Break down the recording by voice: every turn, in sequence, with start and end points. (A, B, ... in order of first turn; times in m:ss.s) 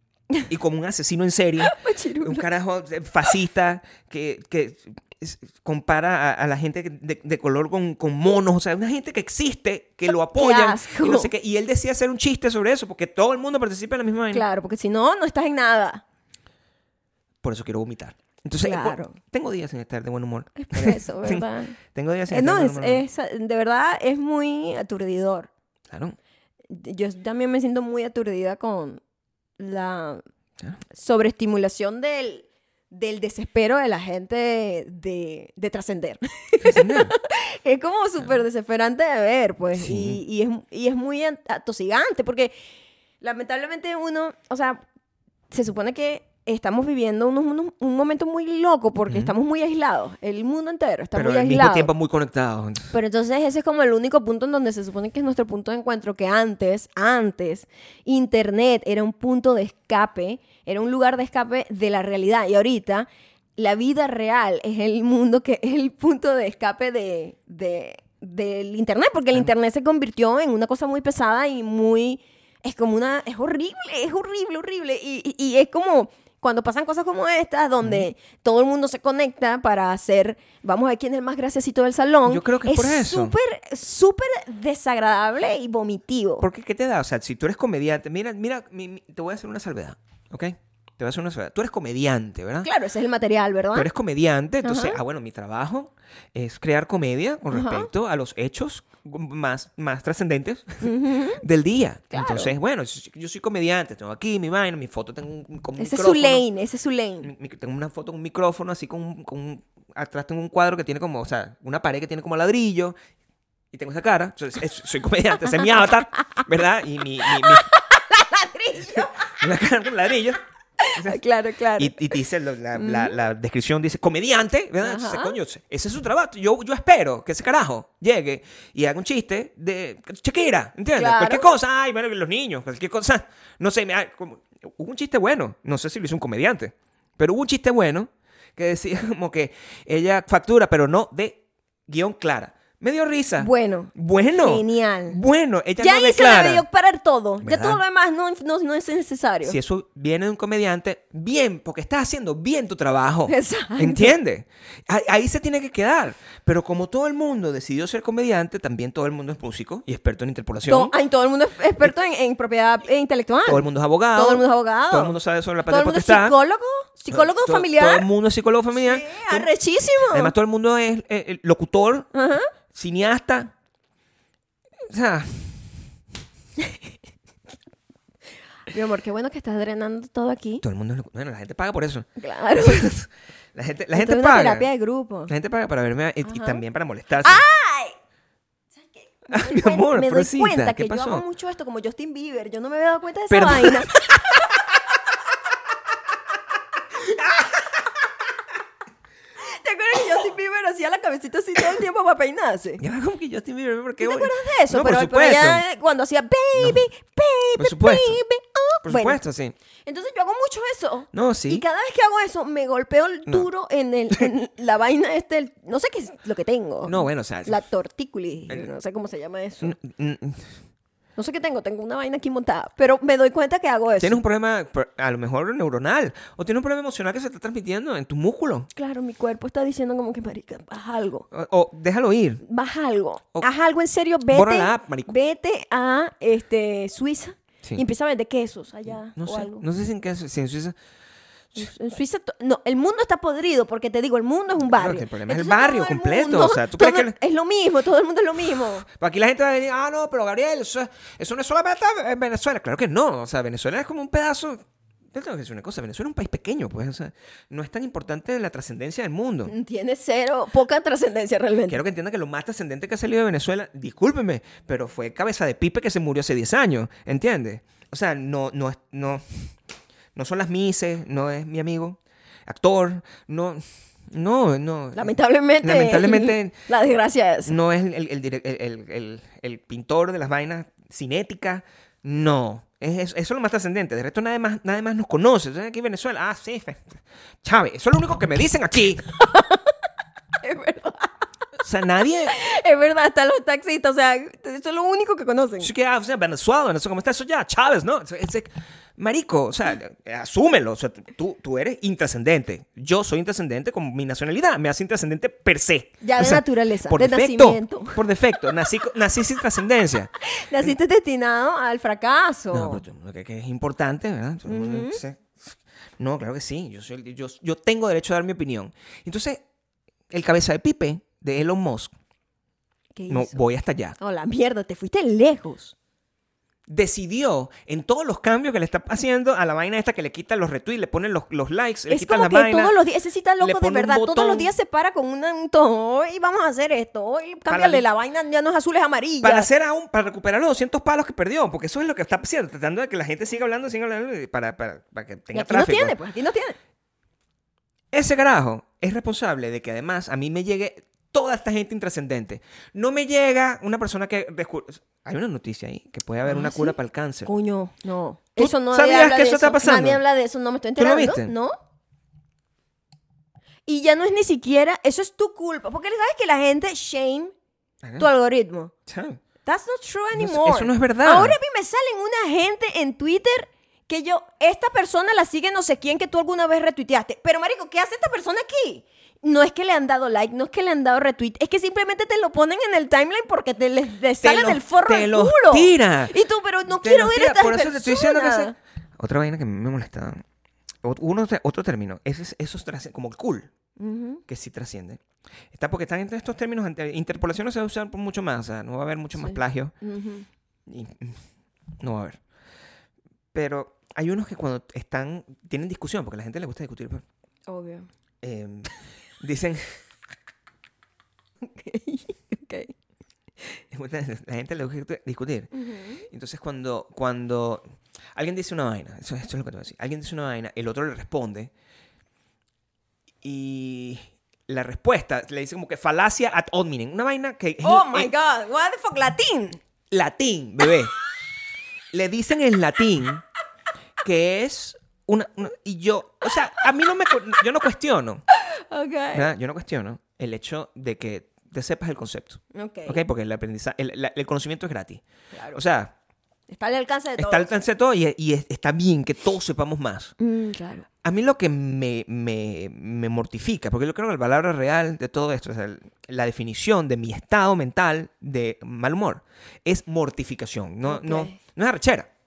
0:00.5-0:14.4 A
0:01.6-0:02.4 B
0:10.2-0:11.3 B
0:14.3-0:16.0 B
0:17.4-0:23.0 A
0:18.6-0:19.2 B
0:20.6-0:21.8 B
0:22.3-0:25.5 B
0:25.9-0:26.2 A
0:26.7-0:29.0 B
0:29.6-0:30.2 B
0:30.9-0:42.5 B
0:36.6-0:37.1 A
0:39.8-0:40.2 A
0:43.2-0:44.8 B
0:45.5-0:51.9 B
0:51.1-0:53.0 A
0:52.9-1:26.5 B
1:17.8-1:18.1 A
1:22.3-1:23.3 A
1:26.4-1:32.7 A
1:32.6-1:33.9 B
1:33.7-1:46.4 A
1:34.6-1:35.0 B
1:37.5-1:37.9 B
1:40.8-1:41.4 B
1:42.1-1:42.5 B
1:45.8-1:47.3 B
1:47.2-1:53.0 A
1:53.7-1:57.7 A
1:56.2-1:56.4 B
1:57.2-1:59.3 B
1:58.8-2:00.4 A
2:00.8-2:02.2 B
2:00.9-2:01.2 A
2:01.8-2:26.6 A
2:02.8-2:03.1 B
2:04.8-2:05.4 B
2:11.0-2:11.5 B
2:23.4-2:25.2 B
2:25.8-2:29.6 B
2:27.4-2:27.8 A
2:29.4-2:40.9 A
2:33.3-2:34.2 B
2:40.7-2:45.2 B
2:43.5-2:46.4 A
2:45.7-2:48.1 B
2:47.1-2:49.5 A
2:48.7-2:50.3 B
2:50.1-2:52.1 A
2:52.1-2:52.5 B
2:52.7-2:53.5 A
2:54.9-2:55.7 A
2:58.7-3:00.6 B
3:00.6-3:04.7 A
3:02.2-3:02.9 B
3:03.9-3:05.3 B
3:05.3-3:07.4 A
3:06.2-3:06.6 B
3:07.2-3:08.0 B
3:08.8-3:14.6 B
3:09.3-3:11.2 A
3:13.3-3:14.6 A
3:19.4-3:22.8 B
3:22.8-3:25.6 A
3:24.0-3:29.2 B
3:26.6-3:26.8 A
3:27.6-3:28.2 A
3:28.8-3:29.6 A
3:29.9-3:39.8 B
3:31.1-3:31.6 A
3:36.9-3:37.6 A
3:39.6-3:40.5 A
3:41.2-3:44.2 B
3:44.0-3:48.7 A
3:48.8-3:51.3 B
3:51.3-3:52.4 A
3:52.4-3:59.6 B
3:54.3-3:55.1 A
3:59.2-4:00.8 A
4:01.6-4:08.9 B
4:04.7-4:07.2 A
4:08.8-4:14.6 A
4:15.1-4:19.5 A
4:19.5-4:21.8 B
4:21.7-4:29.5 A
4:30.2-4:36.6 A
4:35.0-4:37.6 B
4:37.5-4:49.0 A
4:49.2-4:49.7 B
4:50.4-4:51.2 B
4:51.6-4:52.4 A
4:52.3-4:55.7 B
4:55.6-5:10.8 A
5:06.0-5:08.0 B
5:10.2-5:12.8 B
5:12.5-5:19.4 A
5:14.5-5:15.0 B
5:20.1-5:21.9 A
5:23.0-5:23.4 B
5:23.1-5:24.0 A
5:24.0-5:25.8 B
5:26.7-5:32.8 A
5:31.9-5:39.5 B
5:33.4-5:34.5 A
5:37.5-5:37.9 A
5:39.2-5:46.0 A
5:45.3-5:46.6 B
5:47.9-5:57.3 A
5:56.2-6:01.6 B
5:58.4-6:00.0 A
6:00.8-6:01.3 A
6:03.7-6:07.3 B
6:07.8-6:08.1 A
6:08.0-6:08.7 B
6:08.9-6:09.2 A
6:09.4-6:28.5 B
6:10.2-6:11.4 A
6:24.2-6:26.2 A
6:26.7-6:30.2 A
6:30.8-6:33.5 A
6:33.8-6:34.2 B
6:34.3-6:35.0 A
6:35.5-6:39.7 A
6:39.2-6:40.3 B
6:40.7-6:41.2 A
6:41.8-6:42.2 A
6:43.3-6:47.0 A
6:47.5-6:47.9 B
6:48.2-6:49.7 A
6:51.4-6:52.7 B
6:53.7-6:55.5 A
6:55.5-6:56.0 B
6:56.1-6:57.6 A
6:58.2-7:01.5 A
7:03.2-7:08.1 A
7:07.6-7:09.6 B
7:09.9-7:10.9 A
7:11.9-7:13.2 A
7:14.0-7:18.2 A
7:18.4-7:19.3 B
7:19.1-7:25.9 A
7:22.5-7:23.0 B
7:25.3-7:25.6 B
7:26.5-7:27.5 B
7:27.2-7:30.1 A
7:30.2-7:30.9 B
7:31.0-7:42.1 A
7:40.9-7:41.4 B